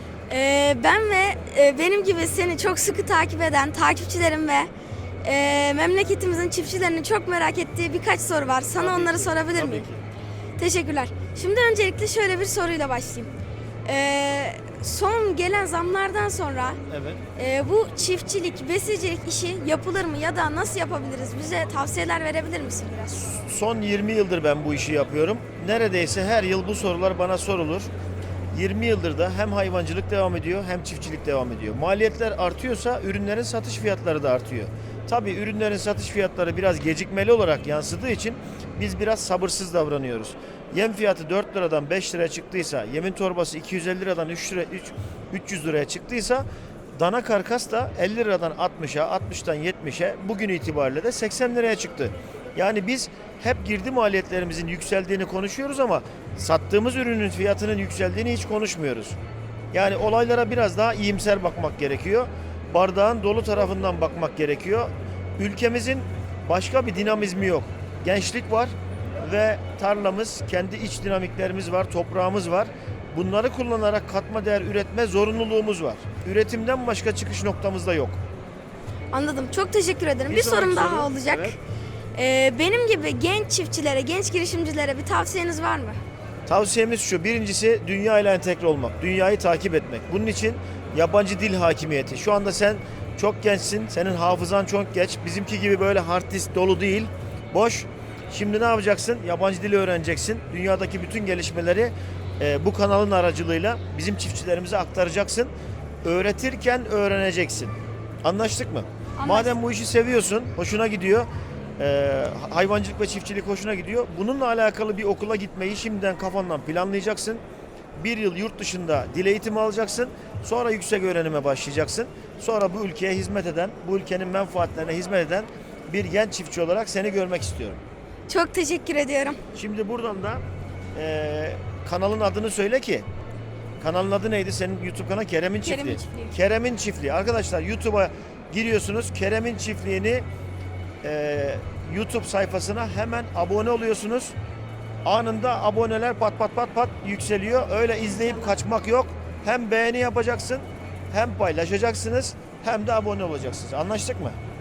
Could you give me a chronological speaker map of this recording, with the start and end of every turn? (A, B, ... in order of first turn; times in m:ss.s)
0:00.3-0:04.7 A
0:05.2-0:09.8 A
0:08.8-0:10.0 B
0:10.6-0:13.3 A
0:13.8-0:16.8 A
0:16.9-0:17.2 B
0:17.4-0:23.3 A
0:23.3-0:27.9 B
0:28.5-0:46.4 B
0:47.0-0:59.2 B
0:59.7-1:18.2 B
1:19.1-1:21.6 A
1:20.3-1:21.5 B
1:22.1-1:26.0 A
1:26.5-1:45.5 B
1:46.0-1:57.4 B
1:49.2-1:49.5 A
1:58.0-2:07.8 B
2:08.3-2:09.4 A
2:09.5-2:10.4 B
2:10.9-2:13.1 B
2:13.8-2:20.2 B
2:15.6-2:16.3 A
2:21.0-2:24.3 B
2:25.0-2:34.4 B